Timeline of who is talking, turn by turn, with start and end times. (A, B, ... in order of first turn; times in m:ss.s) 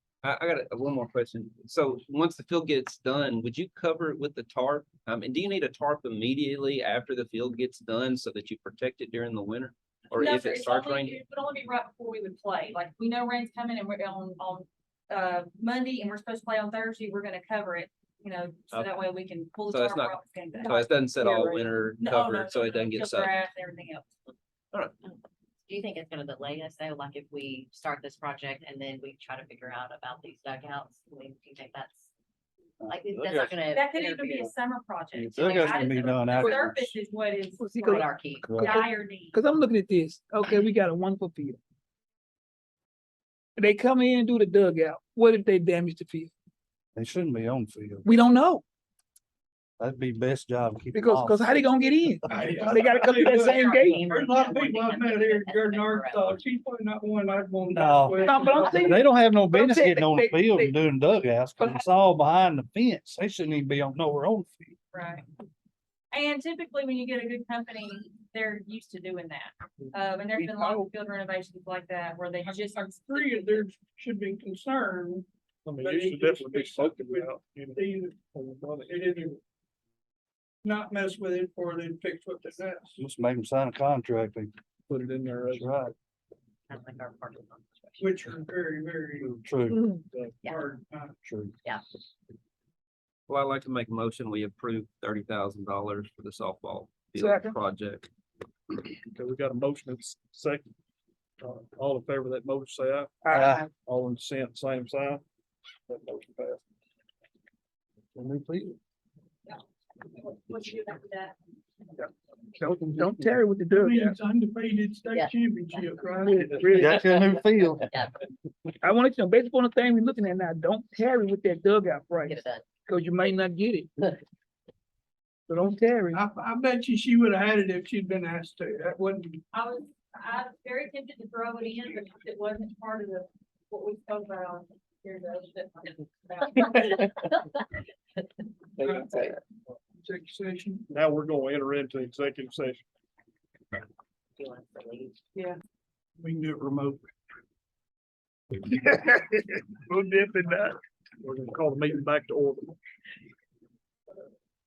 0:00.2-0:11.2 A
0:10.1-0:24.1 B
0:19.7-0:23.4 A
0:24.7-0:25.0 A
0:25.0-0:32.1 C
0:32.8-0:33.6 D
0:32.8-0:34.5 C
0:33.7-0:39.4 B
0:35.1-0:37.0 D
0:35.4-0:36.5 C
0:36.4-0:36.6 E
0:37.6-0:41.6 E
0:37.7-0:38.5 C
0:38.4-0:38.8 D
0:43.6-0:46.3 E
0:46.9-0:48.0 D
0:48.0-0:48.6 E
0:49.8-0:51.5 D
0:50.9-0:54.1 E
0:52.3-0:59.0 F
0:53.4-0:56.4 C
0:57.7-1:04.8 D
0:58.2-1:00.8 E
1:01.6-1:01.8 E
1:04.9-1:05.2 B
1:06.1-1:13.6 B
1:10.3-1:10.9 E
1:12.4-1:15.3 F
1:15.6-1:19.4 G
1:15.8-1:18.2 F
1:18.8-1:19.3 F
1:20.6-1:23.0 F
1:23.0-1:24.5 D
1:24.9-1:25.7 G
1:25.5-1:25.9 D
1:26.7-1:28.2 C
1:28.0-1:29.3 F
1:29.2-1:29.8 D
1:29.7-1:30.0 E
1:30.1-1:30.5 G
1:30.4-1:30.7 C
1:30.5-1:31.1 F
1:31.2-1:31.5 D
1:33.3-1:38.1 A
1:37.2-1:37.6 E
1:39.1-1:40.6 G
1:41.4-1:43.2 G
1:43.2-1:43.6 E
1:43.3-1:43.6 D
1:43.7-1:45.2 G
1:45.9-1:46.6 G
1:48.1-1:48.8 D
1:49.5-1:51.4 B
1:52.5-1:54.2 E
1:53.7-1:56.6 F
1:55.1-1:55.9 C
1:56.2-1:57.1 E
1:56.7-1:57.8 D
1:57.9-1:58.2 C
1:58.8-2:04.2 E
2:02.2-2:02.8 C
2:05.5-2:06.2 E
2:06.1-2:09.4 F
2:09.5-2:17.2 B
2:18.8-2:19.2 F
2:20.0-2:20.9 F
2:20.9-2:22.8 G
2:24.4-2:25.2 C
2:26.2-2:27.0 F
2:28.7-2:30.8 E
2:31.2-2:32.7 G